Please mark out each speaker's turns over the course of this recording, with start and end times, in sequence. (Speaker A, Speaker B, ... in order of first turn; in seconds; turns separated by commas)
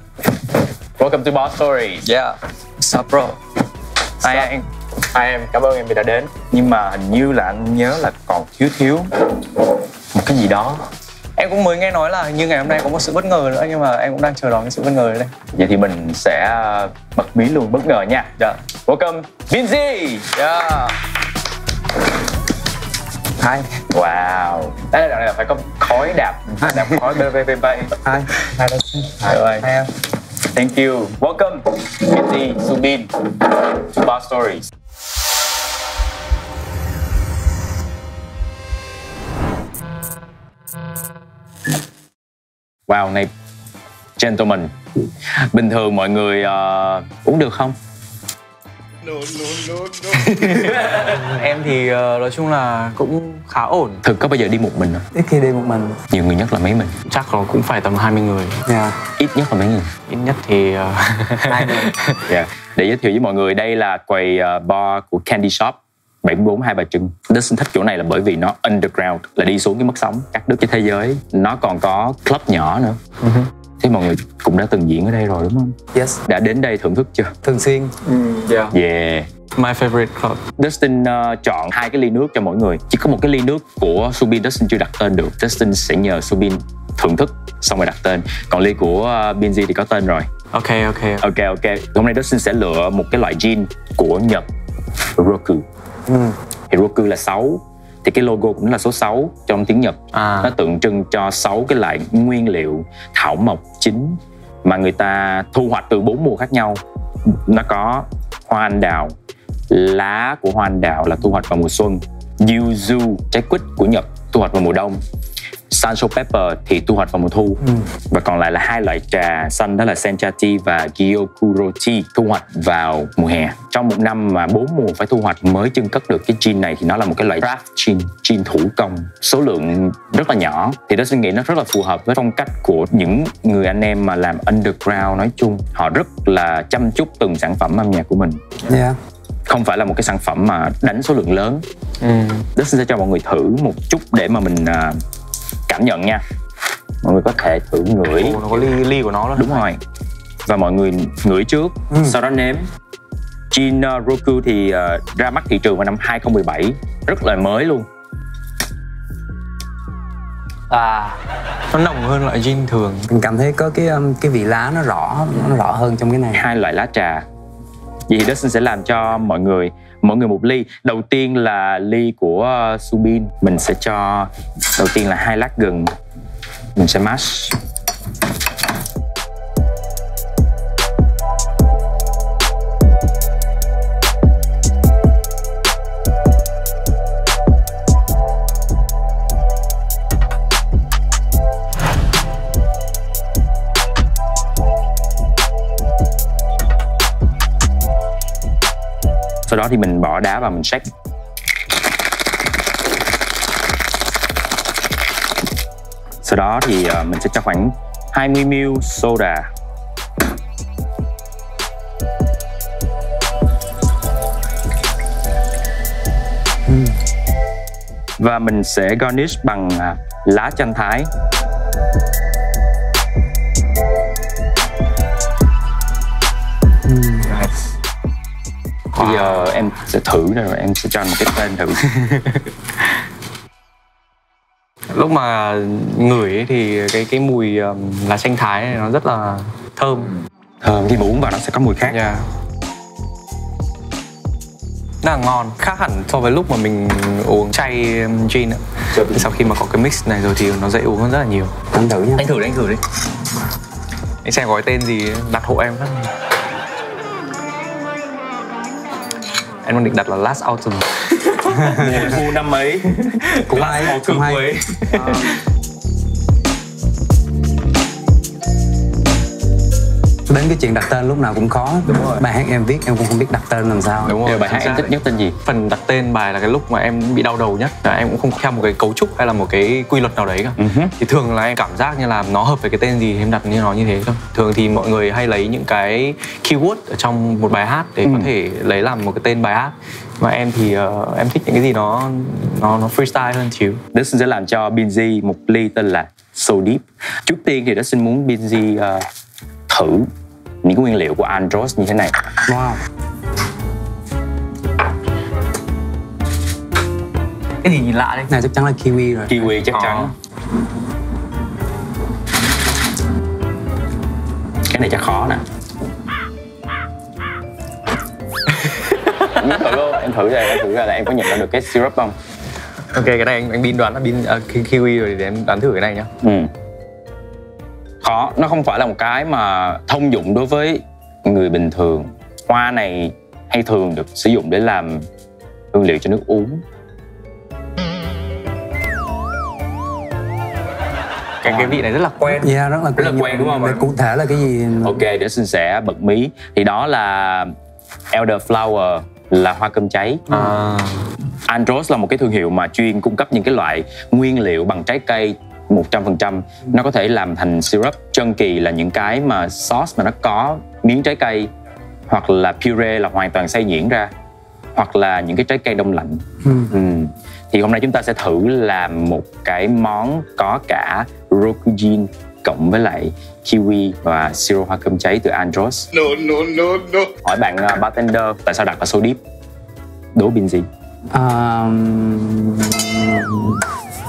Speaker A: 1.0-2.1, Speaker B: 2.0-3.4, Speaker B: 4.2-4.6, Speaker A: 4.2-4.6, Speaker A: 5.1-9.4, Speaker A: 10.1-10.8, Speaker B: 11.4-15.3, Speaker A: 15.5-18.3, Speaker A: 18.9-20.3, Speaker B: 20.3-20.9, Speaker C: 23.4-23.7, Speaker A: 23.9-27.9, Speaker C: 28.0-29.9, Speaker A: 29.2-29.7, Speaker A: 30.5-34.7, Speaker A: 42.9-43.3, Speaker A: 44.2-44.7, Speaker A: 45.3-47.8, Speaker B: 49.4-54.0, Speaker A: 54.0-55.0, Speaker C: 55.1-56.0, Speaker A: 56.1-56.9, Speaker B: 57.1-58.6, Speaker C: 58.6-59.0, Speaker A: 59.2-59.9, Speaker B: 60.1-62.2, Speaker C: 61.5-61.9, Speaker A: 62.3-73.0, Speaker B: 73.2-73.5, Speaker A: 73.8-77.3, Speaker C: 75.9-76.2, Speaker C: 77.4-77.9, Speaker B: 78.0-78.7, Speaker A: 78.7-79.3, Speaker B: 79.6-80.4, Speaker A: 80.6-90.3, Speaker B: 90.5-91.2, Speaker A: 91.2-94.5, Speaker A: 95.2-95.6, Speaker A: 96.7-109.1, Speaker B: 100.1-100.5, Speaker A: 109.7-115.0, Speaker A: 115.7-138.4, Speaker C: 138.7-139.0, Speaker A: 139.5-141.6, Speaker B: 142.0-142.4, Speaker A: 142.6-145.0, Speaker A: 145.7-146.2, Speaker A: 147.0-148.7, Speaker B: 148.1-149.6, Speaker A: 149.3-149.8, Speaker A: 150.4-152.7, Speaker A: 153.5-157.9, Speaker B: 160.7-163.1, Speaker C: 163.1-166.4, Speaker A: 166.3-167.2, Speaker A: 168.1-175.9, Speaker A: 176.8-177.6, Speaker A: 199.5-200.8, Speaker A: 206.2-209.5, Speaker C: 216.7-217.0, Speaker A: 218.2-221.1, Speaker C: 226.8-227.3, Speaker B: 228.9-229.7, Speaker A: 229.0-231.8, Speaker B: 232.0-232.4, Speaker B: 234.9-240.1, Speaker A: 240.6-242.0, Speaker B: 241.9-242.2, Speaker B: 245.0-251.5, Speaker A: 248.9-249.3, Speaker C: 251.7-252.2, Speaker A: 252.2-252.8, Speaker B: 254.2-256.1, Speaker B: 259.6-261.0, Speaker A: 261.3-265.2, Speaker C: 261.6-262.0, Speaker C: 263.5-264.5, Speaker B: 263.5-263.9, Speaker B: 264.7-265.2, Speaker C: 270.3-274.2, Speaker A: 271.9-272.2, Speaker B: 274.0-293.8, Speaker A: 274.1-275.4, Speaker A: 280.6-280.9, Speaker A: 288.1-288.3, Speaker A: 293.9-299.0, Speaker A: 299.7-300.1, Speaker A: 300.6-302.1, Speaker C: 302.4-302.8, Speaker B: 307.6-308.3, Speaker C: 308.3-309.5, Speaker A: 309.3-310.1, Speaker B: 309.7-310.1, Speaker A: 314.7-315.4, Speaker B: 318.8-319.4, Speaker A: 319.3-322.1, Speaker B: 322.9-326.1, Speaker A: 326.2-326.5, Speaker A: 328.0-335.1, Speaker A: 335.7-336.6, Speaker B: 341.4-342.5, Speaker A: 341.4-341.8, Speaker C: 342.4-345.0, Speaker A: 343.0-343.9, Speaker A: 344.8-347.5, Speaker A: 348.1-350.2, Speaker B: 350.3-351.1, Speaker A: 351.5-361.5, Speaker A: 362.1-364.1, Speaker A: 364.7-379.2, Speaker C: 366.4-366.7, Speaker A: 380.1-380.7, Speaker C: 381.1-383.6